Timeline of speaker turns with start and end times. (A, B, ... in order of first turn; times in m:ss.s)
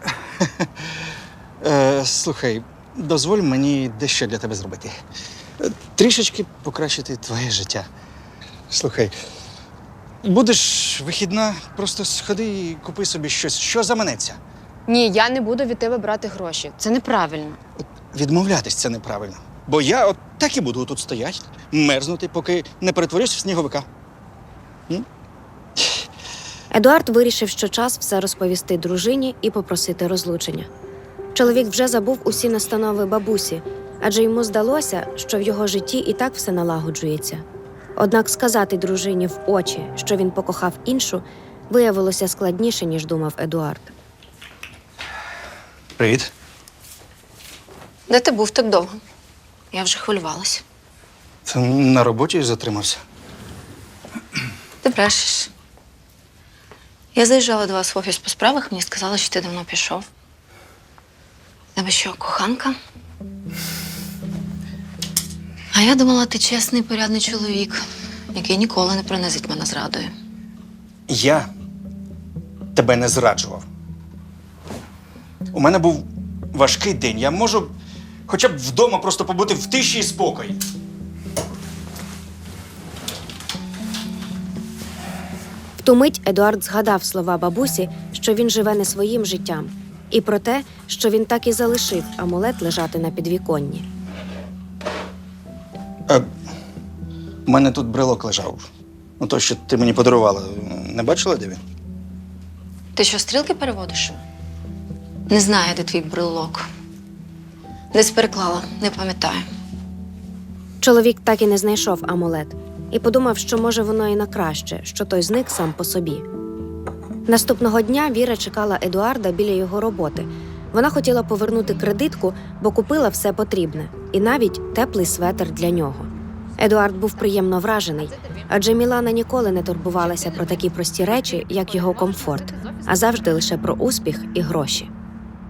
0:00.4-0:00.7 A
0:01.6-0:04.9 A
0:05.6-0:07.9 A
0:08.7-0:09.2 A
0:10.2-0:14.4 A
0:14.9-0:17.6 B
0:18.1-0:23.9 A
0:26.7-0:30.7 C
0:31.3-0:37.4 C
0:38.0-0:43.9 C
0:46.0-0:46.3 A
0:48.1-0:49.0 D
0:49.7-0:50.6 D
0:51.4-0:53.0 A
0:54.8-0:55.5 D
0:57.2-1:00.1 D
1:01.8-1:02.8 D
1:05.7-1:07.8 D
1:08.3-1:10.1 D
1:11.1-1:11.5 A
1:12.8-1:13.6 A
1:15.5-1:17.7 A
1:18.3-1:20.6 A
1:25.8-1:33.8 C
1:37.4-1:38.7 A
1:39.2-1:41.6 A
1:42.9-1:44.2 D
1:45.3-1:46.6 D
1:47.9-1:49.4 D
1:50.8-1:56.2 C
1:57.3-2:14.9 C